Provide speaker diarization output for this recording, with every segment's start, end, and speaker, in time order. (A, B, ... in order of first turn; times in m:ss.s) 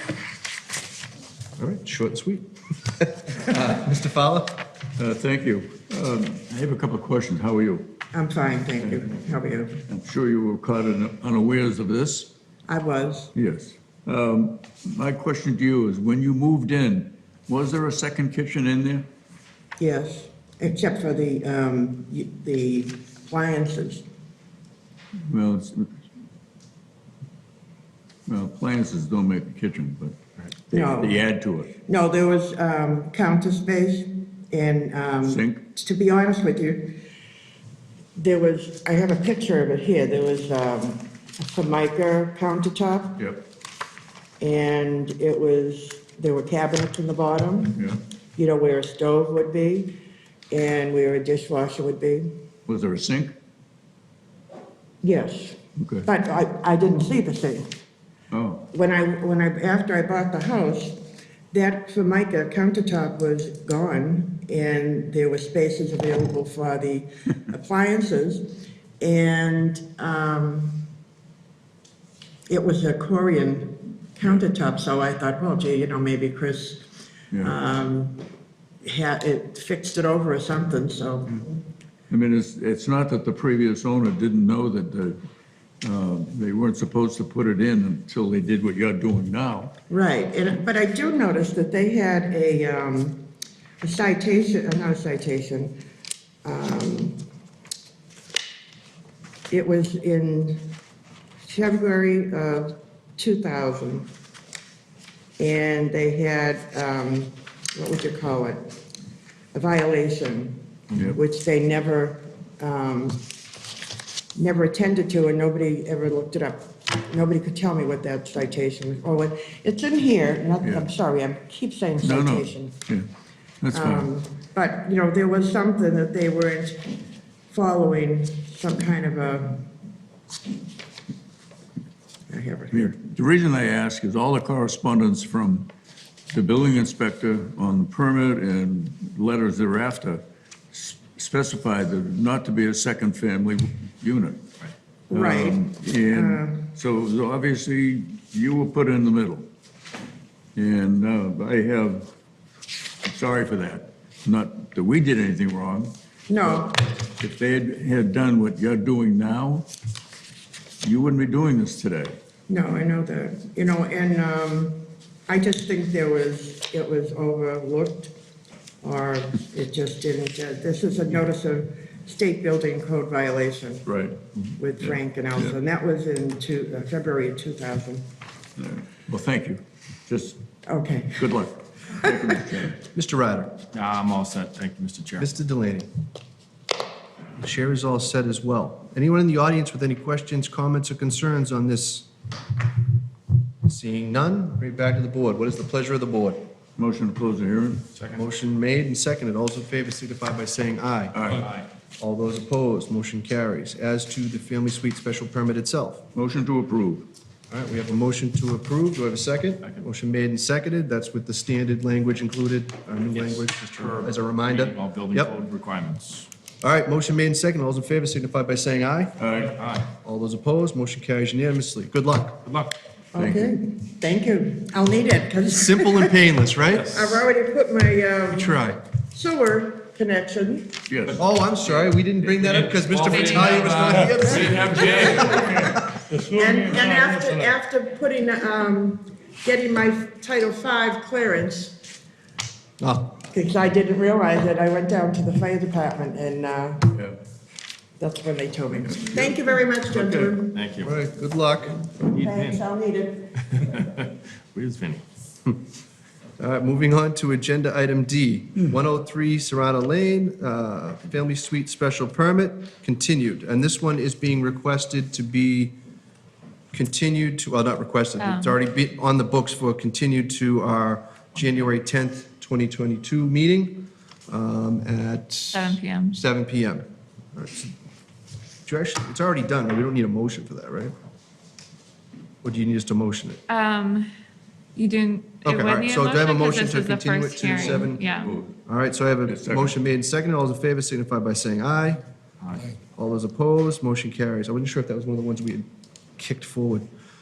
0:01.6-0:04.6 A
0:05.0-0:07.9 B
0:08.1-0:09.8 C
0:09.9-0:12.3 B
0:12.7-0:13.3 C
0:13.3-0:19.0 B
0:19.8-0:24.0 C
0:25.3-0:25.9 B
0:28.3-0:30.1 B
0:30.7-0:31.2 C
0:30.7-0:31.7 B
0:31.8-0:37.0 C
0:35.2-0:35.6 B
0:38.2-0:43.2 C
0:44.4-0:47.8 C
0:47.7-0:48.0 B
0:48.4-0:50.0 C
0:50.5-0:52.3 C
0:52.7-0:53.3 B
0:55.0-0:57.8 C
0:55.8-0:56.1 B
0:58.3-0:58.6 B
0:58.7-1:10.8 C
1:12.5-1:18.2 C
1:18.8-1:21.6 C
1:22.1-1:25.2 B
1:25.8-1:29.7 B
1:29.9-1:33.2 C
1:33.8-1:35.8 C
1:36.4-1:37.2 C
1:39.5-1:40.8 C
1:41.4-1:44.1 C
1:45.4-1:48.7 C
1:49.5-1:53.2 C
1:54.3-2:02.8 C
2:00.6-2:00.9 B
2:02.0-2:03.0 B
2:03.6-2:04.1 B
2:03.7-2:06.9 C
2:07.5-2:09.6 C
2:12.3-2:13.0 C
2:12.7-2:15.7 B
2:16.3-2:24.4 B
2:25.1-2:26.7 C
2:25.1-2:29.5 B
2:30.5-2:32.1 B
2:33.0-2:35.9 B
2:36.3-2:36.9 C
2:37.2-2:39.7 B
2:40.8-2:42.2 B
2:42.5-2:48.1 C
2:48.8-2:53.9 C
2:53.8-2:54.2 B
2:54.6-2:58.0 C
2:54.8-2:55.5 B
2:58.6-3:00.4 B
3:00.6-3:01.3 C
3:01.2-3:02.8 B
3:01.9-3:02.2 C
3:02.9-3:03.5 A
3:03.7-3:05.3 D
3:05.2-3:05.9 A
3:07.4-3:12.1 A
3:13.6-3:16.5 A
3:16.8-3:17.8 B
3:18.0-3:18.2 D
3:18.1-3:21.4 A
3:21.1-3:21.5 B
3:21.3-3:21.6 D
3:22.0-3:26.0 A
3:26.1-3:27.1 B
3:27.5-3:35.3 A
3:33.2-3:36.3 D
3:36.6-3:39.2 A
3:39.2-3:39.6 B
3:39.4-3:39.9 D
3:39.9-3:42.4 A
3:42.4-3:42.7 D
3:43.1-3:46.2 C
3:43.2-3:43.5 B
3:45.5-3:47.0 A
3:46.8-3:47.1 D
3:46.8-3:48.6 C
3:48.3-3:48.8 A
3:49.1-3:50.8 C
3:50.9-3:51.2 B
3:51.1-3:55.8 A
3:51.8-3:54.1 D
3:53.1-3:53.8 E
3:53.7-3:55.7 B
3:54.3-4:01.8 C
3:54.6-3:55.1 D
4:02.8-4:03.1 A
4:03.3-4:06.9 C
4:08.0-4:10.6 C
4:08.8-4:09.3 B
4:09.9-4:10.4 B
4:10.5-4:11.0 D
4:10.8-4:11.9 A
4:12.0-4:12.6 D
4:12.2-4:13.4 C
4:13.5-4:15.0 D
4:16.4-4:25.7 A
4:26.7-4:37.7 A
4:28.2-4:28.6 E
4:35.5-4:36.2 E
4:38.6-4:40.9 A
4:42.4-4:43.4 A
4:43.5-4:44.1 E
4:44.8-4:48.3 E
4:45.4-4:48.0 A
4:48.2-4:48.6 B
4:48.7-4:52.0 A
4:49.2-4:49.7 B
4:52.4-4:52.7 D
4:53.0-4:55.6 A
4:56.2-4:56.8 A